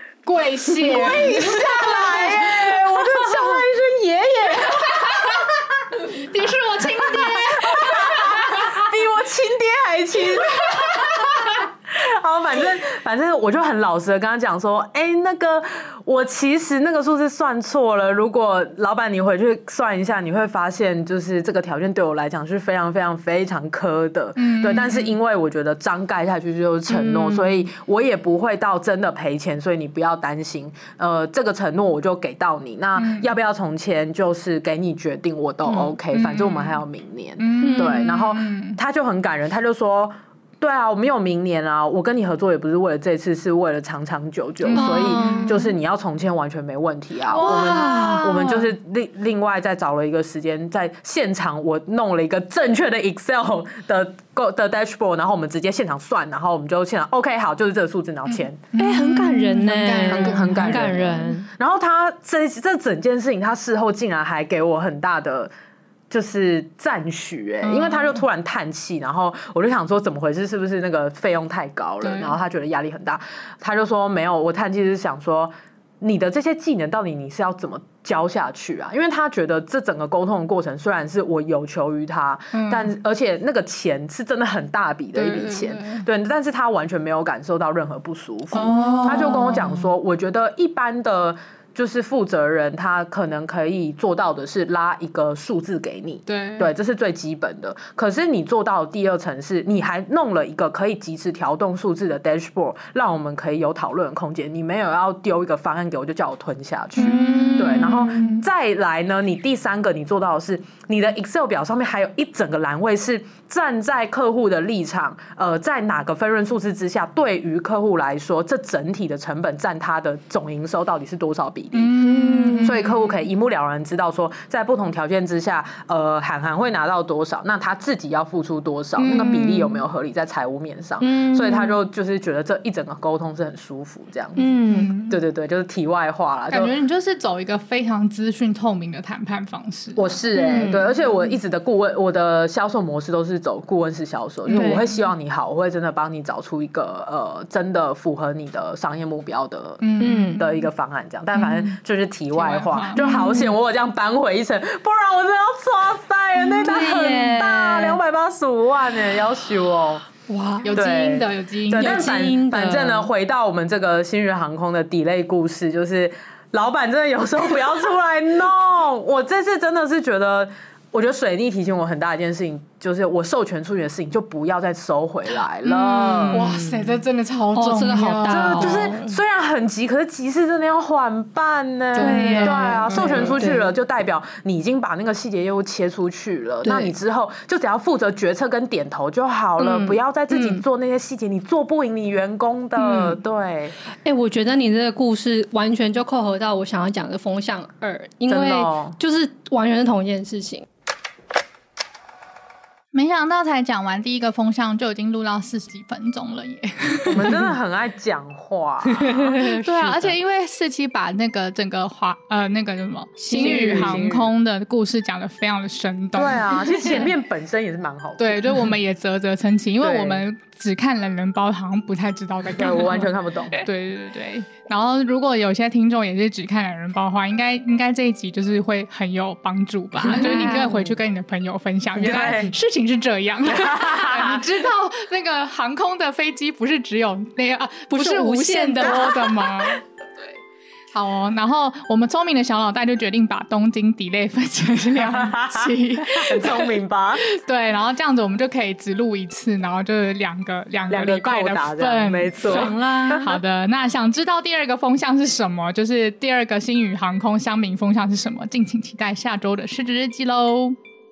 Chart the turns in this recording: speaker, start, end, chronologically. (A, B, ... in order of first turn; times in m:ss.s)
0:00.2-0:03.7 A
0:00.6-0:05.5 B
0:04.7-0:05.3 A
0:06.0-0:08.7 A
0:06.8-0:58.7 B
0:10.6-0:11.0 A
0:24.4-0:25.2 A
0:26.9-0:27.7 A
0:33.0-0:33.3 A
0:35.6-0:36.8 A
0:37.4-0:38.8 A
0:37.6-0:38.0 C
0:44.6-0:45.7 A
0:44.7-0:45.7 C
0:47.3-0:48.7 A
0:47.4-0:48.3 C
0:58.3-1:01.0 A
0:58.8-1:01.5 C
1:00.0-1:05.5 B
1:06.1-2:02.0 B
1:07.6-1:08.2 A
1:12.0-1:12.4 A
1:22.5-1:22.9 A
1:25.1-1:26.0 A
1:28.5-1:29.9 A
1:28.7-1:29.1 C
1:36.3-1:36.7 A
1:47.0-1:48.4 A
1:47.1-1:47.5 C
2:01.7-2:03.2 A
2:02.0-2:02.8 C
2:02.6-2:16.7 B
2:09.0-2:09.6 A
2:09.0-2:09.7 C
2:11.0-2:11.8 C
2:14.4-2:14.9 C
2:14.7-2:15.2 A
2:16.5-2:20.7 A
2:20.0-2:40.0 B
2:20.3-2:20.9 C
2:24.4-2:25.0 A
2:24.5-2:24.8 C
2:29.8-2:30.6 A
2:30.0-2:30.4 C
2:31.3-2:31.8 A
2:32.3-2:33.6 A
2:36.6-2:38.0 C
2:40.3-2:40.9 C
2:40.6-2:42.2 A
2:40.7-2:56.6 B
2:41.7-2:43.1 C
2:55.6-2:59.1 A
2:56.2-2:56.8 C
2:57.5-2:58.9 C
2:58.3-3:13.7 B
3:01.9-3:03.5 A
3:01.9-3:03.7 C
3:06.6-3:06.9 C
3:09.6-3:10.6 C
3:12.8-3:13.1 A
3:14.0-3:20.6 C
3:18.3-3:19.0 B
3:22.9-3:27.5 A
3:27.1-3:29.4 B
3:28.8-3:30.1 C
3:29.3-3:37.1 A
3:33.2-3:34.1 C
3:33.3-3:34.3 B
3:36.1-3:38.7 B
3:38.2-3:59.8 A
3:39.8-3:40.2 B
3:42.5-3:43.7 B
3:50.0-3:50.9 C
3:50.0-3:50.8 B
3:51.9-3:52.5 B
3:53.5-3:54.4 B
3:57.9-3:59.1 C
3:58.8-3:59.1 B
4:00.9-4:20.8 A
4:05.0-4:07.2 B
4:10.9-4:13.4 B